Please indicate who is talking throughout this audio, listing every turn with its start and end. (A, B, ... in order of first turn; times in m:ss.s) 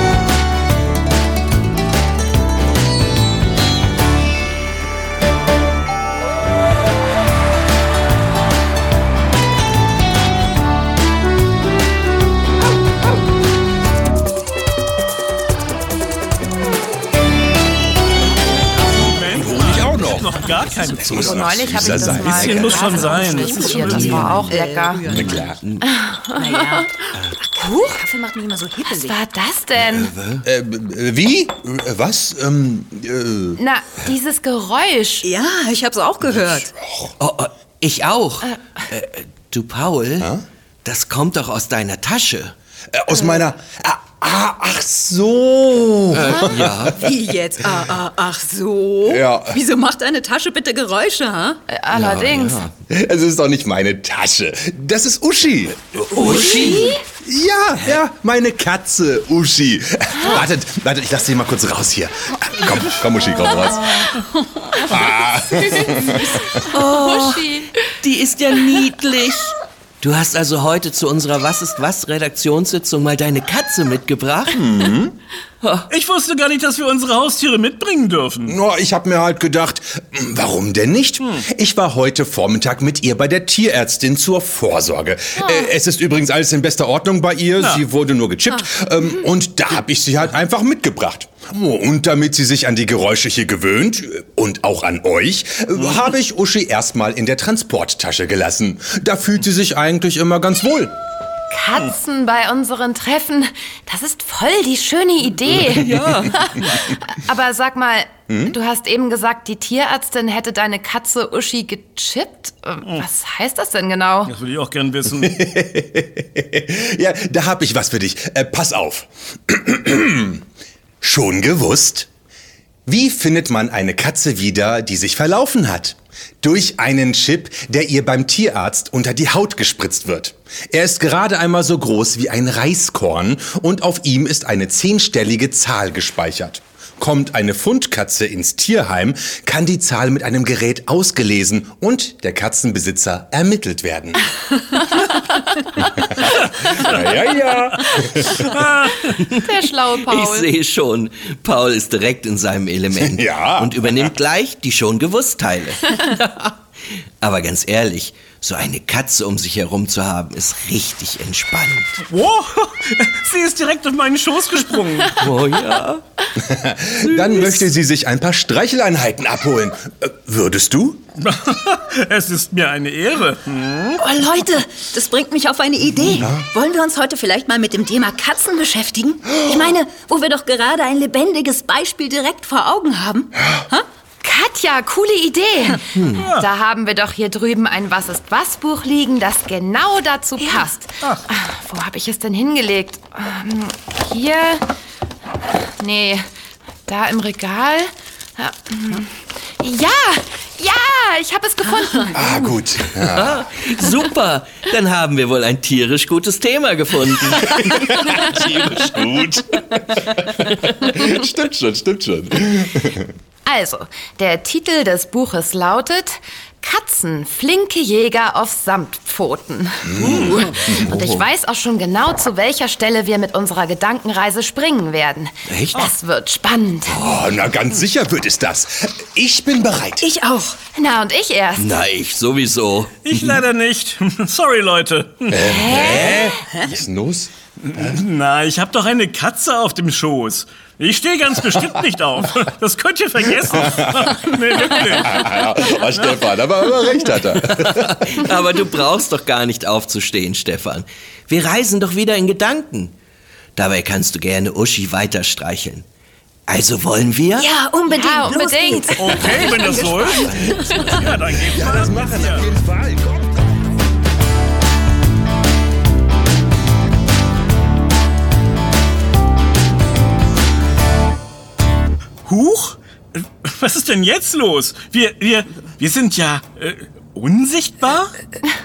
0:18.9-0:24.4 A
0:19.3-0:23.3 B
0:21.0-0:25.0 C
0:23.8-0:24.4 D
0:24.0-0:24.4 B
0:24.4-0:25.5 E
0:25.1-0:25.6 B
0:25.1-0:25.8 D
0:25.8-0:26.9 C
0:26.4-0:29.2 E
0:27.6-0:28.0 C
0:28.9-0:30.1 C
0:29.8-0:30.5 D
0:30.4-0:33.6 B
0:33.6-0:35.3 C
0:35.2-0:36.7 E
0:36.5-0:37.1 B
0:37.2-0:40.3 D
0:38.4-0:38.8 C
0:40.8-0:42.6 D
0:42.9-0:47.8 B
0:46.1-0:47.0 D
0:46.8-0:51.6 E
0:49.1-0:49.6 B
0:51.7-0:52.6 C
0:51.9-0:52.7 D
0:52.9-1:04.0 B
0:56.0-0:57.0 D
0:56.2-0:57.0 C
1:04.8-1:06.6 B
1:06.3-1:07.8 C
1:06.7-1:14.6 D
1:14.5-1:15.2 B
1:15.6-1:15.9 D
1:15.9-1:18.6 A
1:18.5-1:40.9 B
1:21.2-1:21.5 A
1:25.4-1:25.7 C
1:27.6-1:27.8 A
1:41.5-1:54.3 C
1:45.5-1:46.3 D
1:48.3-1:48.6 B
1:54.3-1:55.4 A
1:55.2-2:00.4 B
2:01.0-2:02.1 B
2:02.9-2:24.3 B
2:25.8-2:28.5 B
2:26.3-2:27.0 A
2:27.9-2:29.1 A
2:29.0-2:30.5 C
2:29.2-2:29.5 D
2:30.1-2:42.0 D
2:33.0-2:34.1 B
2:42.1-2:45.3 A
2:45.2-2:46.0 D
2:46.4-2:51.0 B
2:47.0-2:47.7 D
2:51.2-2:54.0 A
2:54.0-3:03.9 E
2:56.2-2:56.4 B
3:04.2-3:14.6 C
3:06.0-3:06.3 D
3:06.2-3:06.5 A
3:10.4-3:10.7 E
3:15.8-3:16.3 C
3:16.9-3:22.5 C
3:22.1-3:23.4 B
3:23.0-3:29.0 D
3:27.2-3:33.1 B
3:33.4-3:47.0 C
3:39.8-3:40.9 B
3:40.4-3:41.3 D
3:45.5-3:45.8 D
3:46.9-3:50.0 B
3:50.0-3:50.6 E
3:50.7-3:51.8 C
3:51.6-3:53.4 D
3:53.0-3:55.6 A
3:55.3-3:57.9 B
3:55.4-3:56.4 C
3:57.6-4:06.3 A
4:03.4-4:04.2 B
4:04.8-4:08.0 B
4:07.5-4:12.9 D
4:13.6-4:15.8 D
4:16.5-4:17.6 D
4:17.4-4:21.0 E
4:17.9-4:19.6 C
4:19.0-4:22.5 A
4:20.2-4:21.0 D
4:21.5-4:23.4 B
4:32.2-4:38.1 A